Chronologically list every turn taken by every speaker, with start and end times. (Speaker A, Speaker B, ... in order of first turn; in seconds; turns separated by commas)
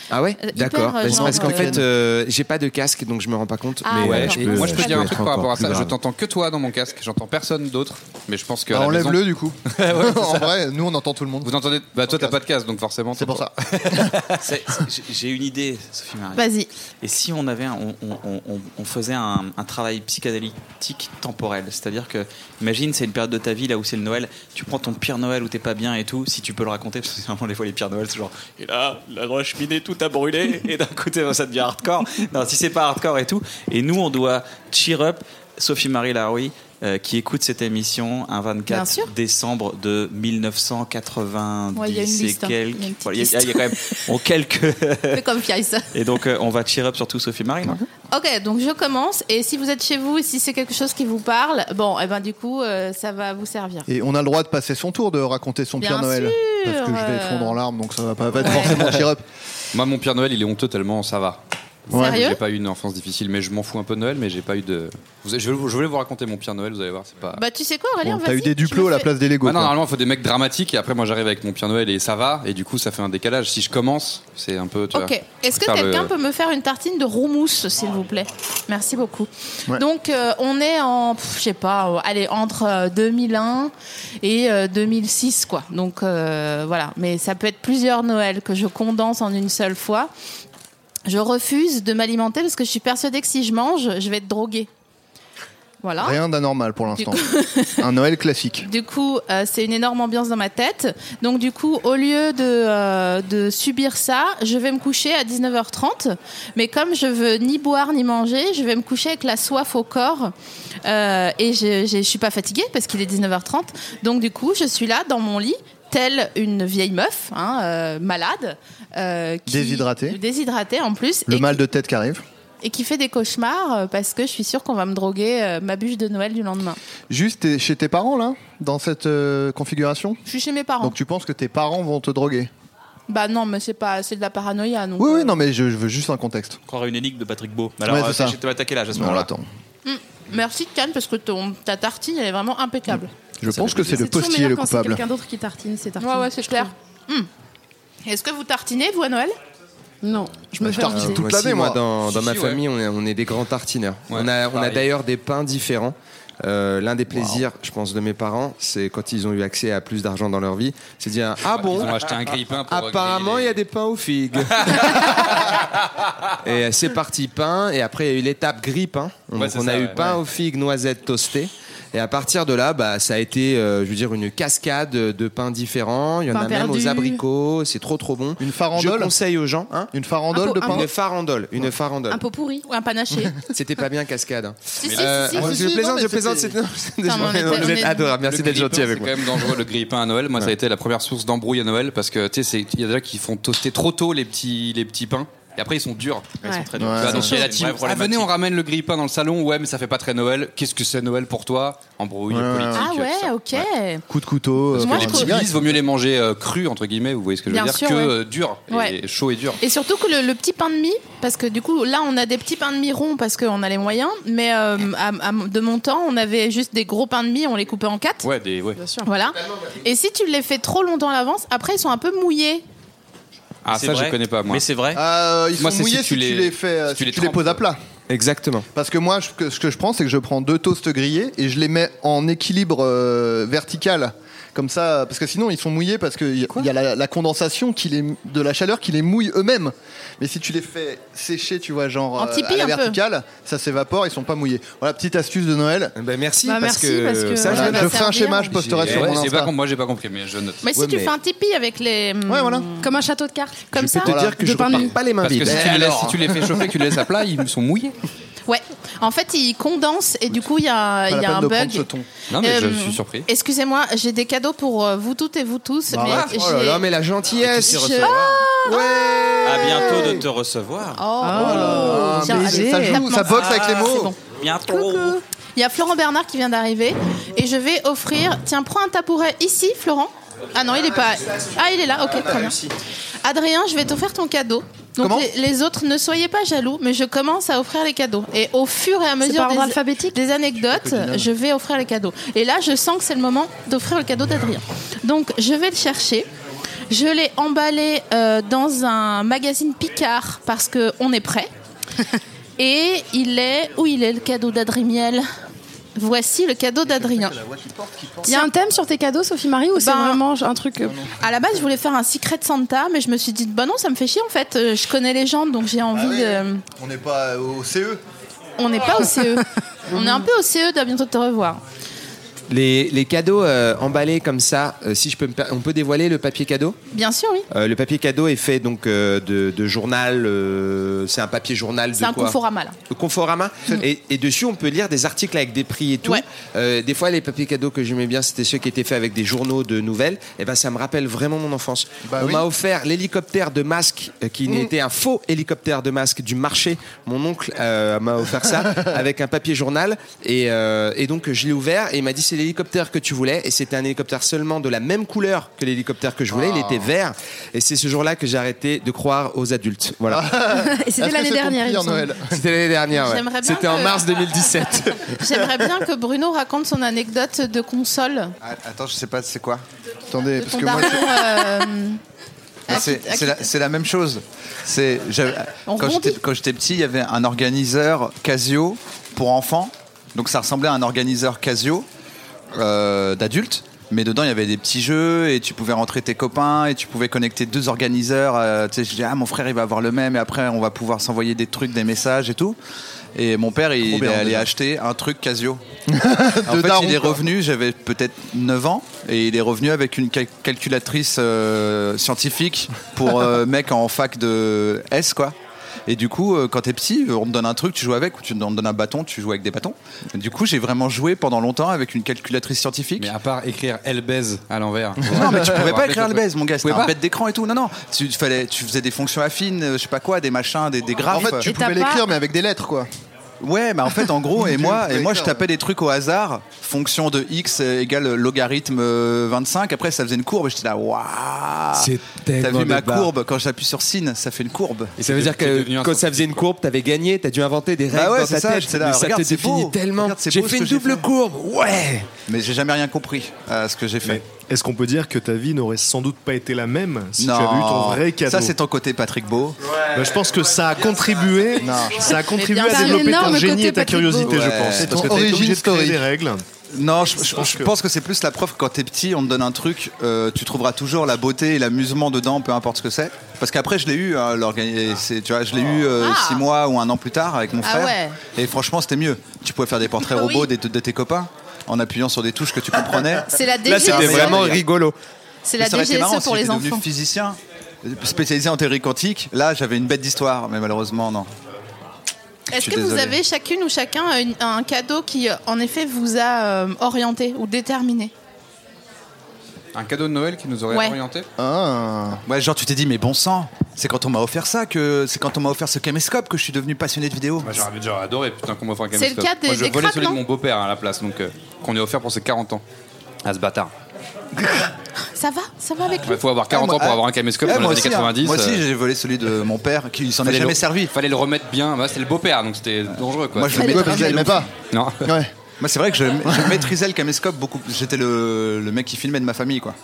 Speaker A: 0.1-4.7, Speaker B: 0.4-1.8, Speaker C: 1.0-1.9, Speaker B: 3.8-5.2, Speaker D: 3.9-6.0, Speaker E: 4.0-10.5, Speaker C: 8.7-11.5, Speaker E: 11.4-14.1, Speaker C: 12.0-12.4, Speaker C: 13.1-14.2, Speaker F: 14.4-16.4, Speaker B: 16.4-16.7, Speaker F: 17.0-45.2, Speaker B: 38.7-39.1, Speaker B: 41.7-44.0, Speaker B: 45.1-45.9, Speaker F: 45.9-47.8, Speaker B: 48.1-53.9, Speaker C: 53.9-59.2, Speaker B: 55.8-57.6, Speaker B: 58.4-58.8, Speaker E: 58.6-59.0, Speaker E: 59.7-67.4, Speaker C: 61.9-62.3, Speaker B: 61.9-62.4, Speaker B: 67.3-69.1, Speaker C: 68.0-69.7, Speaker E: 69.4-76.1, Speaker B: 74.9-90.1, Speaker B: 91.1-94.7, Speaker B: 95.8-96.2, Speaker C: 96.0-97.2, Speaker B: 97.0-97.8, Speaker C: 97.8-98.7, Speaker B: 98.6-110.3, Speaker B: 110.8-121.6, Speaker C: 119.5-120.2, Speaker C: 121.3-122.2, Speaker B: 122.6-126.8, Speaker C: 127.1-130.2, Speaker B: 130.2-130.9, Speaker C: 130.8-132.5, Speaker B: 133.1-135.3, Speaker C: 135.0-136.6, Speaker F: 136.7-139.3, Speaker C: 137.8-138.4, Speaker C: 138.9-139.4, Speaker B: 139.8-143.1, Speaker C: 143.4-145.0, Speaker G: 143.6-146.7, Speaker B: 146.0-147.3, Speaker B: 148.1-149.4, Speaker G: 150.0-151.2, Speaker C: 150.6-151.8, Speaker A: 150.7-165.2, Speaker E: 152.0-152.6, Speaker E: 154.1-154.8, Speaker E: 161.4-163.6, Speaker E: 164.6-165.6, Speaker A: 166.4-179.9, Speaker E: 169.3-170.1, Speaker G: 176.3-177.2, Speaker C: 178.4-179.1, Speaker C: 179.9-180.9, Speaker G: 180.3-180.9, Speaker A: 180.7-182.2, Speaker G: 182.1-182.6, Speaker B: 182.6-183.4, Speaker A: 183.5-189.5, Speaker B: 184.8-185.5, Speaker E: 184.8-185.5, Speaker C: 185.3-186.6, Speaker B: 187.0-188.1, Speaker E: 188.2-196.3, Speaker F: 196.4-198.3, Speaker C: 196.8-197.3, Speaker E: 197.0-203.6, Speaker C: 202.3-202.9, Speaker B: 202.7-204.0, Speaker C: 204.1-205.7, Speaker E: 204.7-209.6, Speaker B: 204.7-205.4, Speaker B: 207.5-208.1, Speaker B: 208.7-208.9, Speaker B: 209.6-218.2, Speaker E: 218.2-218.8, Speaker G: 218.8-219.1, Speaker B: 219.0-222.6, Speaker E: 223.6-224.6, Speaker F: 223.7-225.0, Speaker C: 224.9-227.8, Speaker E: 225.6-227.6, Speaker A: 228.1-228.7, Speaker C: 228.7-245.9, Speaker B: 242.2-243.0, Speaker A: 245.9-247.9, Speaker G: 246.4-247.8, Speaker C: 247.4-249.5, Speaker B: 247.5-248.7, Speaker A: 248.5-249.2, Speaker E: 248.8-250.7, Speaker B: 250.6-252.9, Speaker A: 250.7-251.1, Speaker C: 252.3-252.7, Speaker G: 252.8-253.8, Speaker B: 253.7-254.1, Speaker A: 253.8-256.2, Speaker C: 254.0-254.4, Speaker G: 254.3-254.9, Speaker E: 255.2-257.9, Speaker C: 255.4-256.7, Speaker B: 258.5-261.9, Speaker C: 261.1-262.1, Speaker E: 262.3-263.2, Speaker B: 262.4-266.8, Speaker C: 265.9-266.3, Speaker A: 266.1-268.1, Speaker B: 267.4-269.8, Speaker F: 267.4-268.4, Speaker C: 268.6-270.2, Speaker F: 269.4-271.0, Speaker B: 271.0-274.1, Speaker G: 271.2-273.1, Speaker C: 271.3-274.1, Speaker F: 273.3-275.2, Speaker B: 275.6-282.6, Speaker A: 282.1-282.7, Speaker B: 283.2-296.3, Speaker G: 289.2-290.2, Speaker C: 290.7-291.3, Speaker B: 296.9-301.5, Speaker B: 302.6-305.2, Speaker B: 306.0-307.3, Speaker C: 306.9-308.3, Speaker G: 308.2-311.0, Speaker B: 309.8-310.2, Speaker C: 310.8-311.1, Speaker B: 311.2-316.6, Speaker C: 315.9-318.0, Speaker B: 318.6-321.6, Speaker G: 318.9-319.4, Speaker G: 319.9-320.2, Speaker A: 322.5-326.8, Speaker B: 326.9-327.4, Speaker A: 327.5-332.4, Speaker B: 332.0-332.8, Speaker A: 332.9-360.2, Speaker C: 342.0-342.4, Speaker C: 356.3-356.9, Speaker C: 360.1-362.4, Speaker G: 360.5-362.1, Speaker A: 362.2-365.1, Speaker B: 362.9-364.1, Speaker B: 365.0-368.3, Speaker H: 368.4-369.6, Speaker C: 370.1-371.5, Speaker B: 370.4-372.0, Speaker H: 372.7-381.9, Speaker B: 372.7-373.4, Speaker B: 375.7-376.2, Speaker H: 382.5-392.6, Speaker H: 393.1-395.6, Speaker C: 393.8-394.5, Speaker C: 395.9-397.2, Speaker H: 396.5-405.3, Speaker H: 405.9-413.1, Speaker E: 413.0-416.9, Speaker H: 415.1-421.5, Speaker C: 415.1-415.4, Speaker C: 421.1-422.9, Speaker G: 421.4-422.1, Speaker H: 423.4-435.0, Speaker C: 424.3-425.4, Speaker A: 431.7-433.1, Speaker A: 435.0-442.1, Speaker E: 435.0-436.4, Speaker H: 437.9-441.1, Speaker H: 442.2-444.2, Speaker D: 444.0-448.6, Speaker H: 447.2-449.6, Speaker D: 449.9-456.4, Speaker C: 451.6-452.1, Speaker G: 452.2-454.4, Speaker B: 452.3-453.4, Speaker H: 454.2-455.3, Speaker C: 454.8-456.0, Speaker H: 456.7-474.6, Speaker D: 457.3-457.7, Speaker B: 466.0-466.4, Speaker B: 467.6-468.2, Speaker B: 470.1-470.5, Speaker B: 473.3-474.5, Speaker A: 473.6-474.9, Speaker B: 475.4-476.8, Speaker H: 475.6-481.3, Speaker B: 482.5-488.1, Speaker H: 482.5-483.2, Speaker E: 489.7-491.2, Speaker B: 490.7-491.0, Speaker C: 491.4-492.2, Speaker H: 492.3-497.6, Speaker E: 497.4-502.6, Speaker B: 498.9-500.2, Speaker E: 503.2-503.7, Speaker B: 505.1-506.2, Speaker E: 506.0-508.6, Speaker H: 506.5-510.9, Speaker E: 510.2-514.0, Speaker H: 513.3-514.5, Speaker C: 513.5-514.5, Speaker B: 513.5-514.3, Speaker E: 514.6-515.1, Speaker C: 515.0-515.3, Speaker H: 515.6-519.8, Speaker C: 516.2-516.7